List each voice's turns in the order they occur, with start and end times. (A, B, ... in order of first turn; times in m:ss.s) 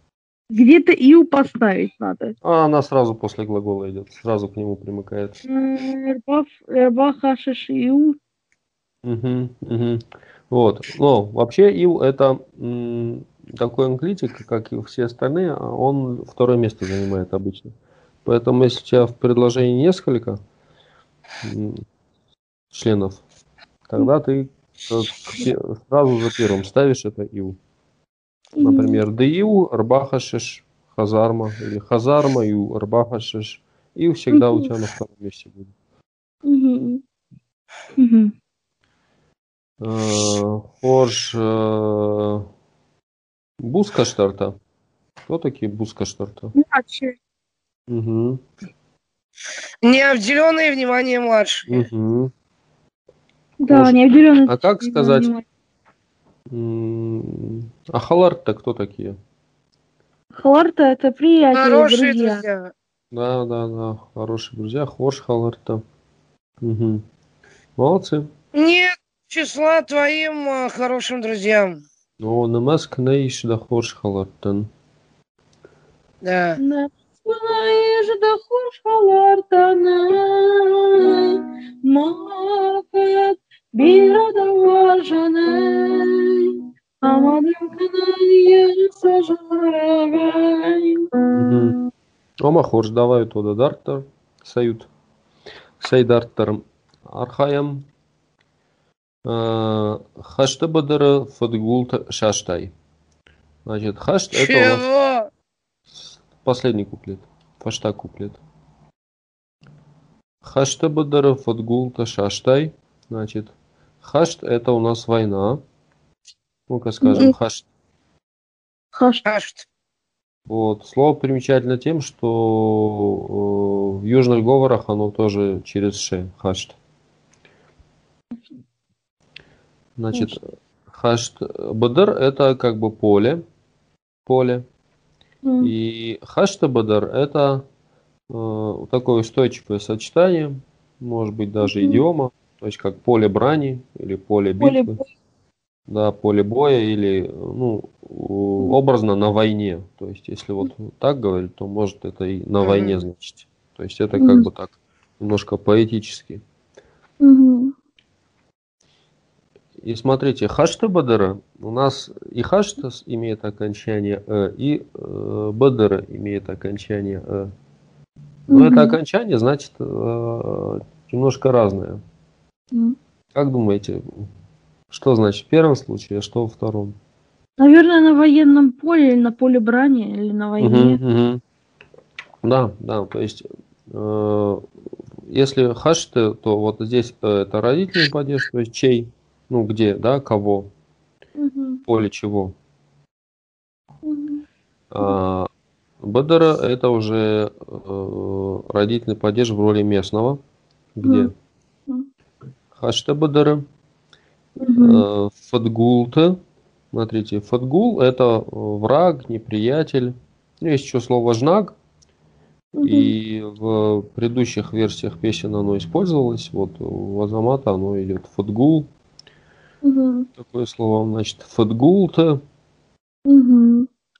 0:00.5-0:02.3 A
0:02.4-0:05.4 B
0:05.5-0:08.2 A
0:09.0-0:17.7 B
0:18.2-0:20.4 B
0:21.4-0:21.8 B
0:22.7-0:23.2 B
0:23.9-0:27.6 B
0:28.6-0:29.0 A
0:28.6-0:35.7 B
0:34.3-0:34.7 A
0:36.4-0:37.0 A
0:38.0-0:38.3 A
0:39.8-0:42.5 B
0:43.6-0:44.5 B
0:45.3-0:46.5 B
0:46.5-0:47.2 A
0:47.9-0:48.4 B
0:49.8-0:51.8 C
0:51.7-0:52.3 B
0:53.6-0:55.4 A
0:53.7-0:54.0 B
0:54.5-0:55.3 B
0:56.5-0:59.2 B
1:00.4-1:02.4 A
1:01.5-1:02.7 C
1:03.1-1:05.8 B
1:06.6-1:07.0 B
1:07.8-1:08.3 B
1:08.5-1:11.8 C
1:12.2-1:14.7 B
1:16.2-1:16.6 C
1:16.6-1:31.7 A
1:31.3-1:31.8 B
1:32.4-1:34.9 B
1:35.8-1:37.9 B
1:39.2-1:42.7 B
1:43.6-1:44.8 B
1:44.3-1:45.3 C
1:46.4-1:48.4 B
1:50.4-1:55.6 B
1:56.7-1:57.7 B
1:57.0-1:57.3 A
1:58.9-1:59.2 A
1:59.2-1:59.6 C
2:00.5-2:06.8 B
2:10.0-2:10.4 B
2:10.9-2:13.4 B
2:14.2-2:14.6 B
2:15.4-2:15.7 A
2:15.6-2:17.6 B
2:18.3-2:25.0 B
2:21.6-2:22.0 A
2:24.6-2:25.1 A
2:25.9-2:36.4 B
2:32.6-2:33.0 C
2:34.2-2:34.4 A
2:37.2-2:37.7 A
2:39.8-2:47.5 B
2:48.5-2:49.0 A
2:48.5-2:52.0 B
2:53.3-2:54.3 B
2:54.9-2:56.9 B
2:57.6-3:01.0 A
3:00.6-3:01.4 B
3:02.4-3:04.6 B
3:05.3-3:10.7 B
3:11.4-3:11.8 A
3:11.9-3:12.5 B
3:14.0-3:14.4 A
3:14.9-3:15.5 B
3:16.0-3:20.4 B
3:21.0-3:21.3 B
3:21.0-3:21.3 A
3:22.7-3:23.6 B
3:24.6-3:25.0 A
3:24.8-3:26.4 B
3:26.9-3:31.7 B
3:32.8-3:33.1 A
3:32.8-3:38.9 B
3:39.8-3:40.3 A
3:40.4-3:42.4 B
3:43.2-3:43.9 A